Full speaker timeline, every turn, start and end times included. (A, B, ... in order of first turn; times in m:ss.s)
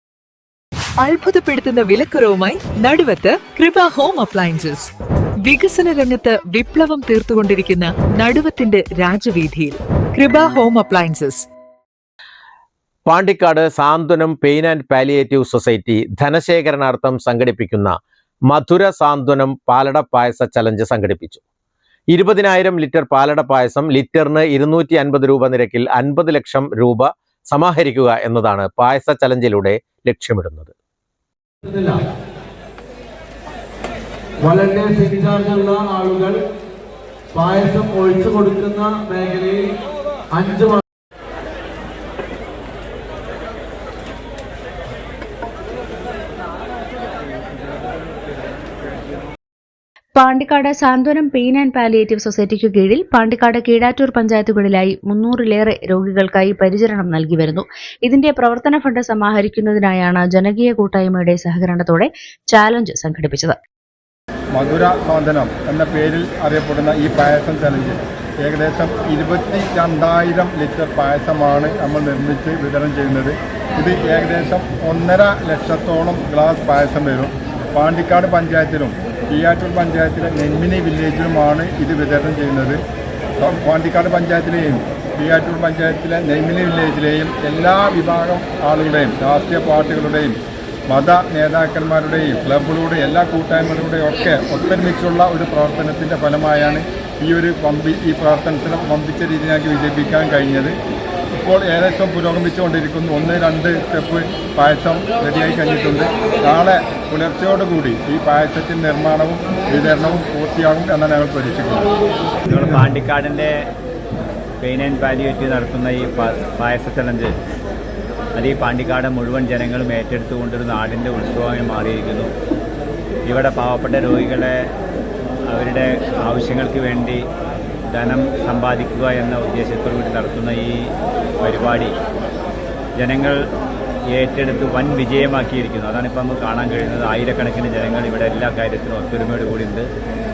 0:01.0-0:04.9 A
0:05.4-0:11.5 A
0:13.0-0:21.4 B
0:22.1-0:30.7 B
0:31.6-0:32.0 C
0:34.4-0:36.4 C
0:37.3-0:39.6 C
0:40.3-0:40.8 C
0:50.1-1:03.6 D
1:04.6-1:22.8 E
1:23.4-1:30.4 E
1:30.9-1:40.7 E
1:41.4-1:51.9 E
1:52.5-1:53.5 F
1:54.6-1:57.3 F
1:58.4-2:02.3 F
2:03.3-2:04.6 F
2:05.5-2:07.2 F
2:07.9-2:11.9 F
2:13.0-2:13.4 F
2:14.1-2:19.9 F